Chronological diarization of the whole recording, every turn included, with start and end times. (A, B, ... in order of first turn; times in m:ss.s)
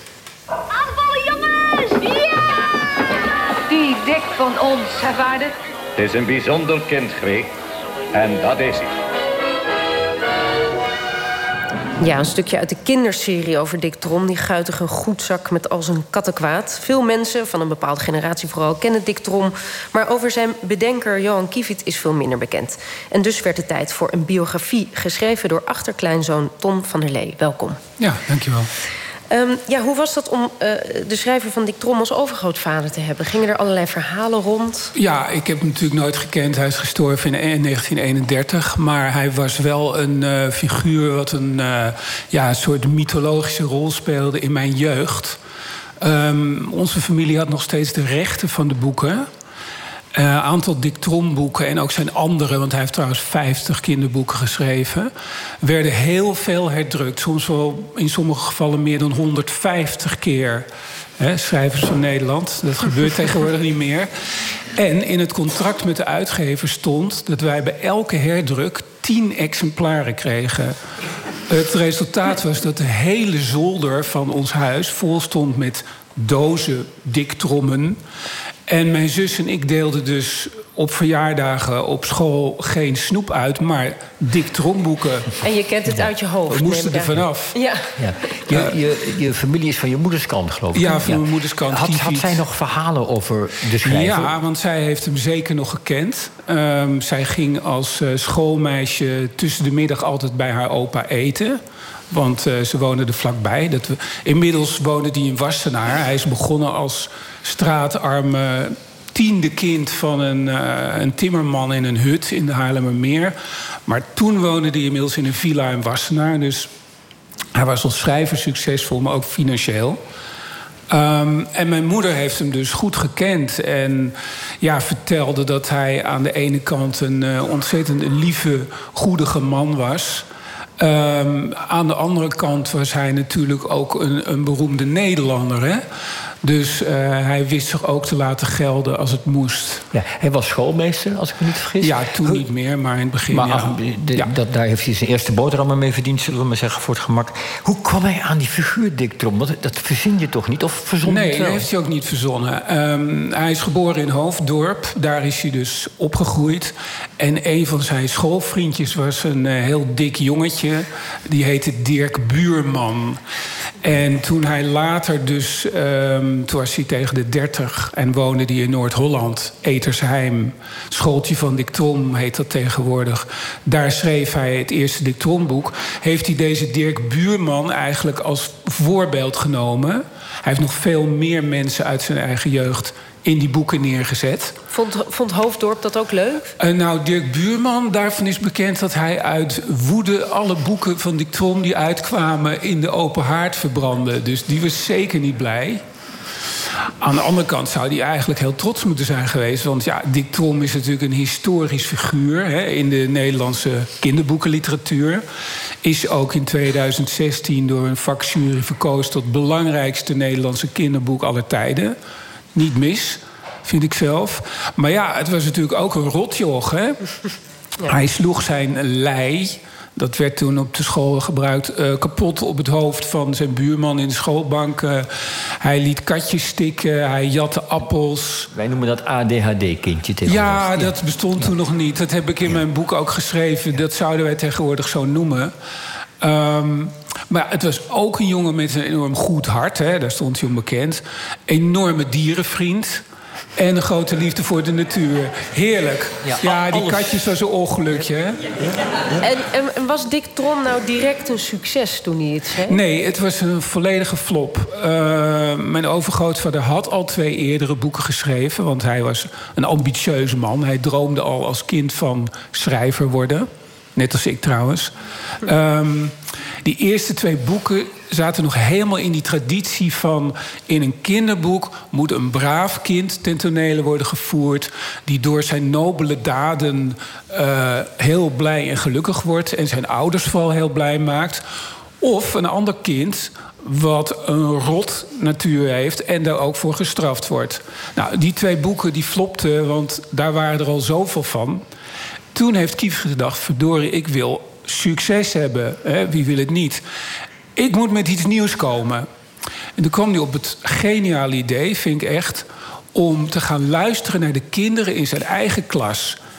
0:01.0-0:01.3 A
0:01.8-0:02.2 A
0:03.7-0:05.5 A
0:06.0-0:07.5 B
0:08.1-0:08.9 B
0:12.0-0:27.8 C
0:28.0-0:28.7 D
0:29.3-0:34.9 C
0:34.9-0:45.4 D
0:46.0-0:49.2 D
0:50.1-1:00.7 D
1:01.2-1:04.1 D
1:04.8-1:10.8 D
1:11.5-1:18.0 D
1:18.7-1:25.4 D
1:25.4-1:27.9 C
1:26.5-1:27.6 D
1:28.0-1:34.3 E
1:30.7-1:32.4 D
1:33.8-1:53.3 D
1:53.8-1:56.7 D
1:57.5-2:00.0 D
2:00.9-2:10.2 D
2:10.8-2:15.8 D
2:16.4-2:19.8 D
2:19.9-2:22.4 E
2:21.8-2:24.3 D
2:23.3-2:31.7 E
2:31.0-2:43.2 D
2:43.8-3:04.6 D
3:04.7-3:06.5 C
3:06.6-3:15.8 D
3:17.0-3:25.2 D
3:25.8-3:32.0 D
3:32.5-3:37.0 D
3:37.8-3:45.1 D
3:45.6-3:48.5 D
3:48.5-3:51.5 E
3:50.2-3:55.5 D
3:56.2-4:03.0 D
4:03.6-4:08.4 D
4:06.2-4:07.1 E
4:09.2-4:12.8 C
4:12.7-4:41.4 D
4:42.0-4:51.6 D
4:52.3-4:56.8 D
4:57.6-4:59.1 D
4:59.8-5:06.2 D